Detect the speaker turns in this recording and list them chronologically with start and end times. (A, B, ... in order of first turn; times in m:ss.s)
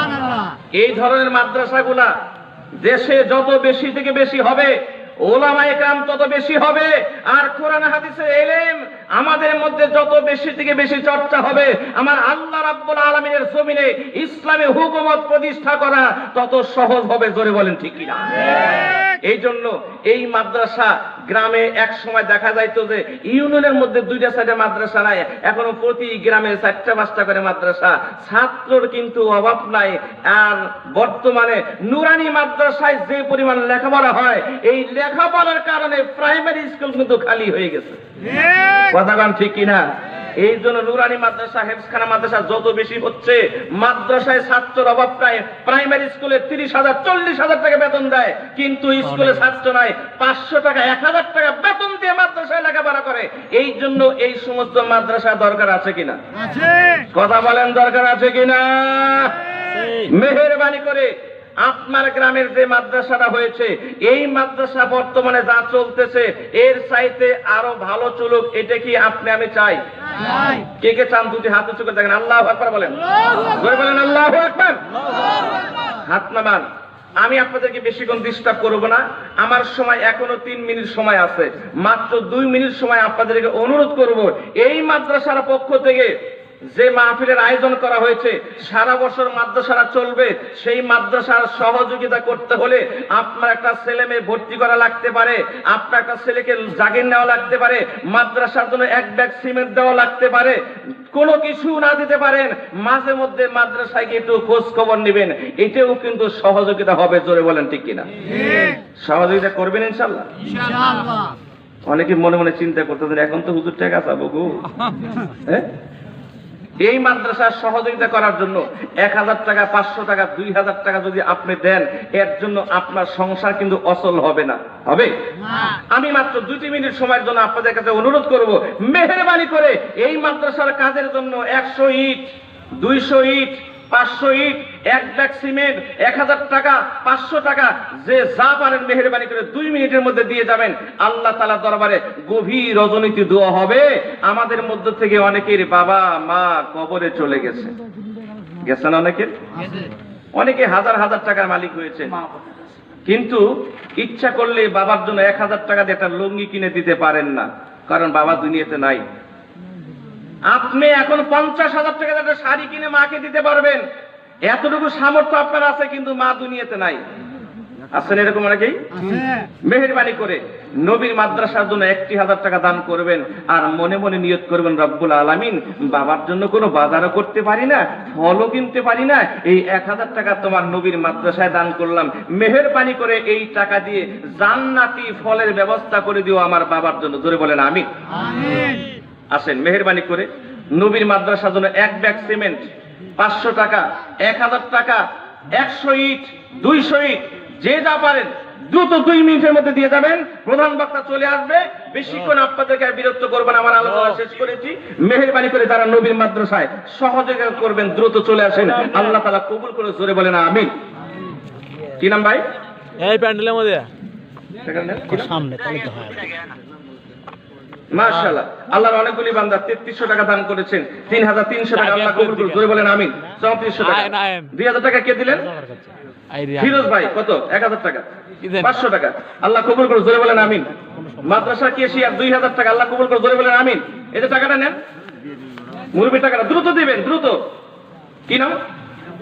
0:00.7-0:02.1 A
0:02.8-0:04.7 A
0:05.2-0:38.0 A
0:38.9-0:39.8 A
0:40.4-0:56.2 A
0:49.0-0:49.4 B
0:57.1-0:59.4 A
0:59.7-1:00.1 B
1:00.0-1:09.8 A
1:10.6-1:14.8 A
1:16.0-1:16.6 A
1:17.2-1:26.1 A
1:26.7-1:40.6 A
1:41.1-1:48.1 A
1:49.0-1:50.3 A
1:51.8-1:54.6 A
1:56.8-2:05.1 A
2:05.7-2:12.3 A
2:12.8-2:27.7 A
2:28.6-2:29.3 A
2:30.4-2:32.1 A
2:33.1-2:33.4 A
2:34.0-2:39.0 A
2:40.5-2:43.8 A
2:44.5-2:47.0 A
2:47.9-2:48.8 A
2:49.6-3:07.9 A
3:09.3-3:30.7 A
3:32.0-3:32.4 A
3:33.0-3:33.9 C
3:34.6-3:35.3 A
3:35.1-3:36.4 B
3:37.9-3:45.5 A
3:41.8-3:42.6 C
3:43.9-3:44.5 C
3:45.3-3:45.9 B
3:46.3-3:46.8 C
3:46.6-3:50.7 A
3:48.4-3:48.7 C
3:50.7-3:51.5 B
3:51.2-3:54.8 A
3:55.9-3:57.4 A
3:58.3-3:58.5 A